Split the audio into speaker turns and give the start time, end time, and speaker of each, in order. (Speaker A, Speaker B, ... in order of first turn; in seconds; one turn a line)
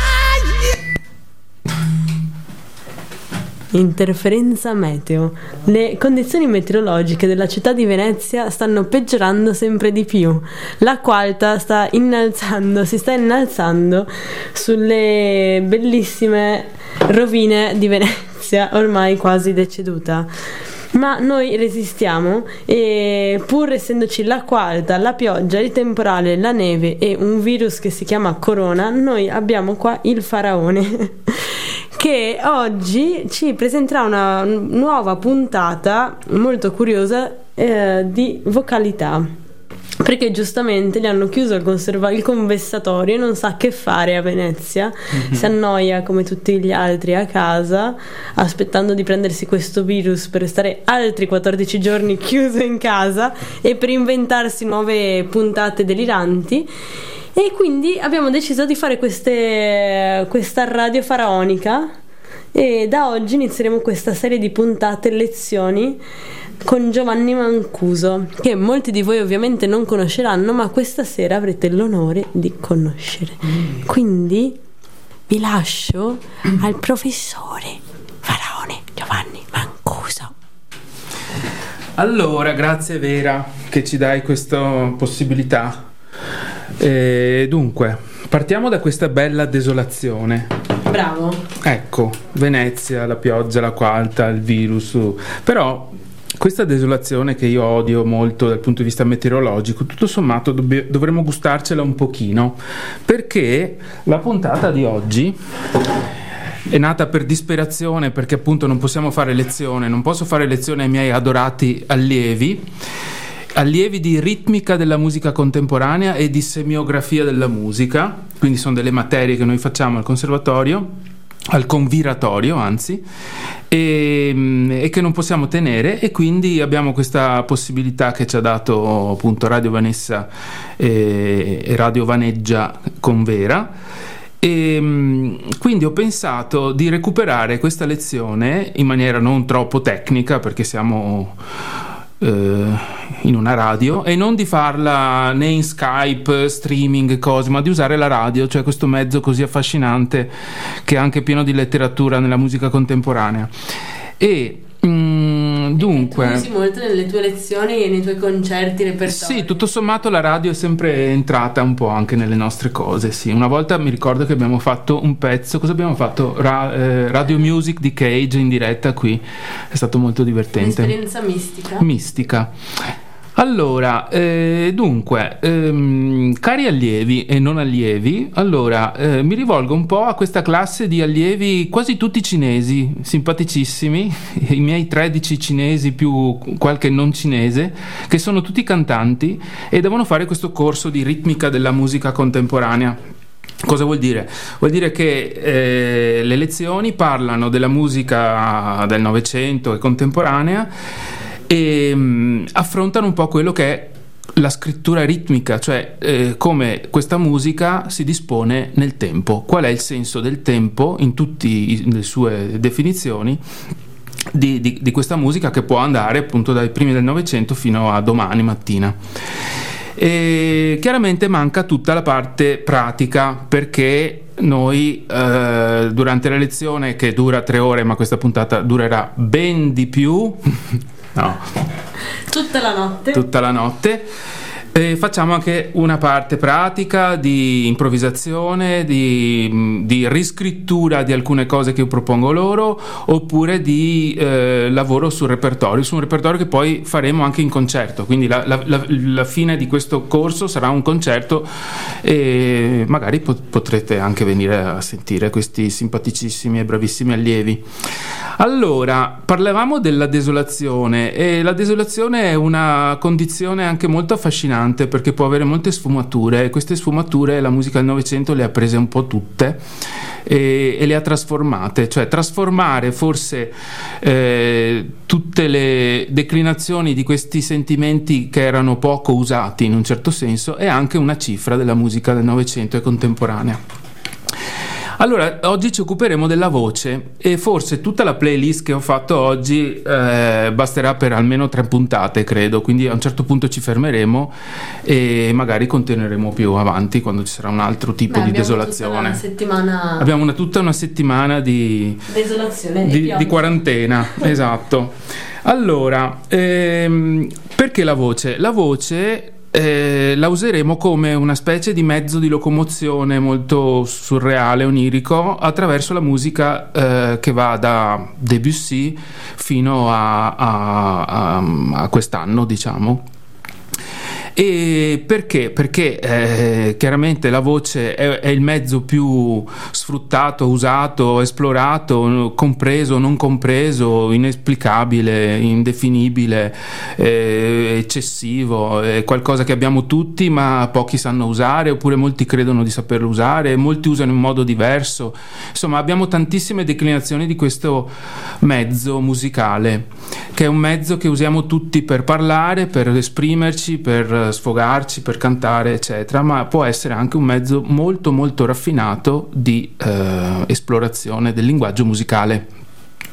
Speaker A: 0.2-0.6
Speaker A: 3.7-20.3
Speaker A: 20.9-39.3
Speaker A: 40.0-56.7
Speaker A: 57.3-61.9
Speaker A: 62.5-66.0
Speaker A: 66.6-74.6
Speaker A: 75.3-80.3
Speaker B: 82.0-85.9
Speaker B: 86.8-90.5
Speaker A: 90.9-91.4
Speaker B: 91.6-105.3
Speaker B: 106.7-112.7
Speaker B: 113.5-120.9
Speaker B: 121.5-123.0
Speaker B: 123.7-133.7
Speaker B: 134.4-141.4
Speaker B: 142.2-153.5
Speaker B: 154.2-156.5
Speaker A: 155.8-159.5
Speaker B: 159.1-171.0
Speaker A: 170.6-171.9
Speaker B: 171.8-193.0
Speaker B: 193.6-200.7
Speaker B: 201.5-213.4
Speaker B: 214.3-219.0
Speaker B: 219.9-231.5
Speaker A: 232.3-233.2
Speaker B: 233.1-234.1
Speaker B: 234.7-257.7
Speaker B: 258.4-269.6
Speaker B: 270.2-283.6
Speaker B: 285.0-299.2
Speaker A: 298.1-300.1
Speaker B: 300.0-302.1
Speaker A: 302.1-303.6
Speaker B: 302.8-323.1
Speaker B: 324.3-362.5